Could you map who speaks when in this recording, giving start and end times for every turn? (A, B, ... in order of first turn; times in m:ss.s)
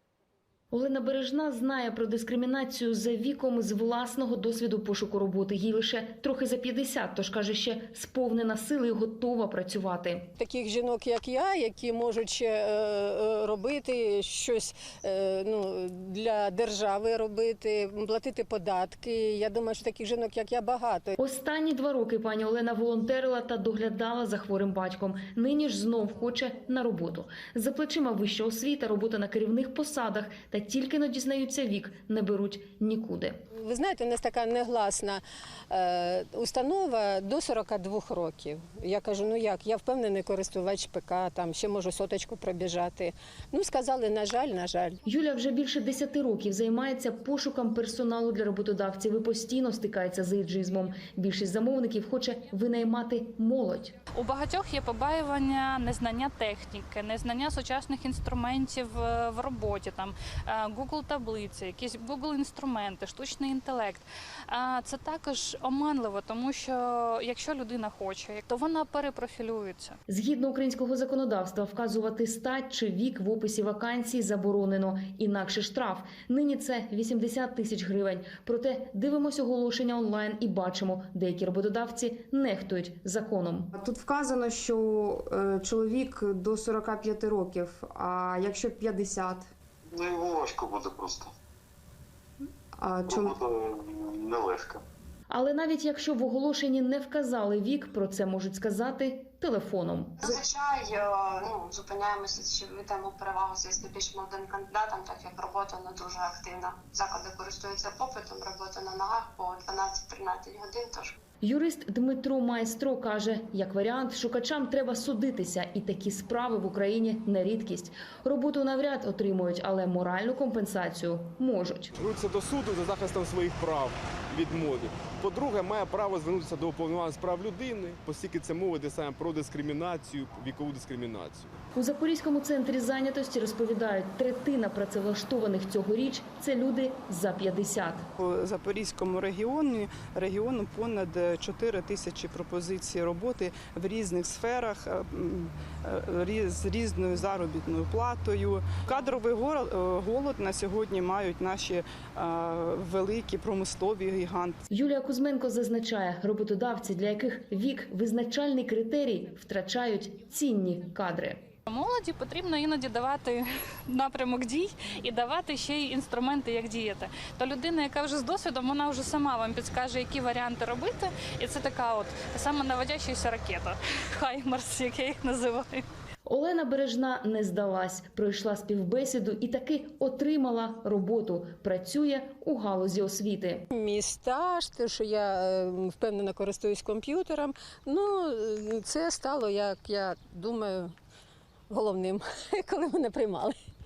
0:00.7-0:10.3 A
0:10.4-0:21.2 B
0:21.2-0:33.4 A
0:33.5-0:45.0 B
0:45.1-0:54.0 A
0:54.2-1:10.0 C
1:10.1-1:23.7 A
1:23.7-1:29.5 D
1:29.9-1:31.3 E
1:32.8-1:33.4 D
1:33.1-1:34.8 E
1:35.3-1:40.3 A
1:40.2-1:51.2 F
1:51.4-2:01.9 A
2:02.0-2:11.5 G
2:11.8-2:18.1 A
2:18.2-2:34.6 H
2:34.7-2:41.5 A
2:41.7-2:55.8 C
2:56.2-3:03.7 A
3:03.7-3:10.9 B
3:11.7-3:13.6 B